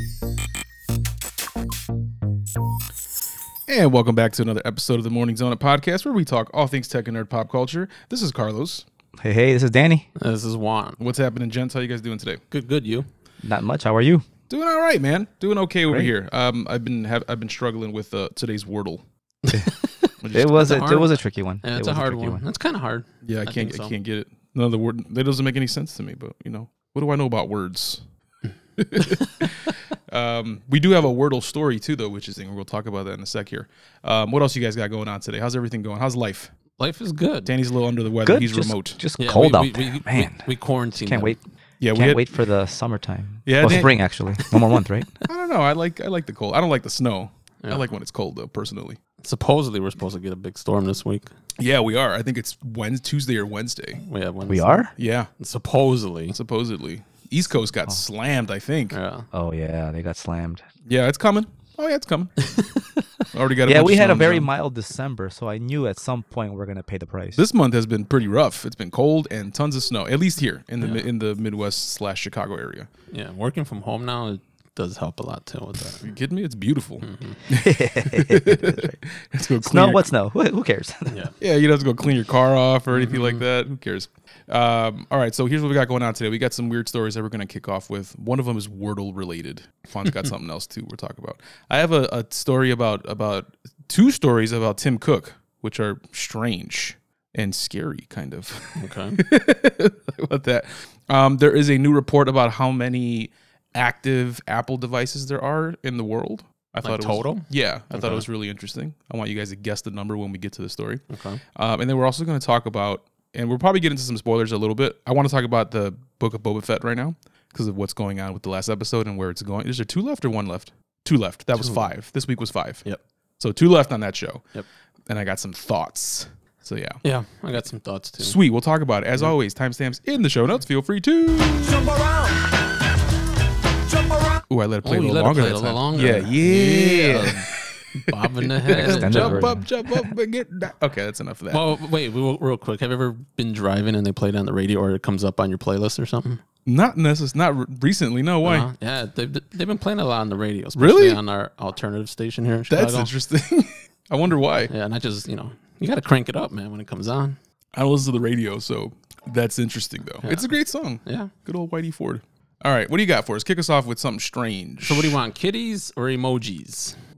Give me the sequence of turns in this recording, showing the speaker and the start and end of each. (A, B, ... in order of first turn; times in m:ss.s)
0:03.7-0:08.8 A
0:09.2-0:10.1 B
0:10.2-0:11.0 C
0:11.0-0:12.4 A
0:12.5-0:13.1 C
0:13.4-0:14.2 B
0:14.5-0:19.0 A
0:19.4-0:21.1 C
0:20.2-0:21.0 A
0:20.3-0:22.4 B
0:21.6-0:23.9 C
0:23.2-0:28.0 A
0:28.8-0:36.5 A
0:29.0-0:29.4 C
0:36.8-0:37.5 C
0:37.5-0:39.0 A
0:38.2-0:40.4 B
0:39.2-0:41.4 C
0:41.0-0:41.4 B
0:41.8-0:42.3 A
0:41.9-0:45.2 B
0:43.5-0:44.0 A
0:45.3-0:49.0 A
0:49.2-0:51.3 C
0:51.6-0:54.0 A
0:54.1-0:56.4 C
0:54.5-0:54.9 B
0:55.0-0:55.3 A
0:56.3-0:59.0 A
0:58.9-0:59.3 C
0:59.3-1:00.6 B
1:00.9-1:02.3 A
1:02.5-1:02.8 C
1:03.3-1:04.5 A
1:03.6-1:07.4 B
1:07.4-1:12.9 A
1:10.8-1:11.1 C
1:13.1-1:16.1 C
1:16.0-1:20.1 A
1:17.0-1:17.4 C
1:17.5-1:19.0 B
1:19.6-1:21.2 B
1:21.4-1:51.0 A
1:22.9-1:23.4 C
1:38.8-1:39.2 C
1:46.8-1:48.3 C
1:51.1-1:51.4 C
1:51.6-2:02.8 A
2:01.6-2:01.9 C
2:03.4-2:04.5 A
2:05.1-2:07.0 A
2:07.0-2:08.4 C
2:08.2-2:12.1 A
2:14.5-2:21.6 A
2:14.8-2:19.6 C
2:18.7-2:19.7 B
2:21.5-2:26.4 C
2:26.7-2:28.7 A
2:28.4-2:33.1 C
2:30.8-2:31.2 A
2:32.7-2:34.7 A
2:34.7-2:37.4 C
2:37.8-2:45.2 A
2:40.2-2:40.5 C
2:41.0-2:41.3 C
2:44.8-2:47.0 C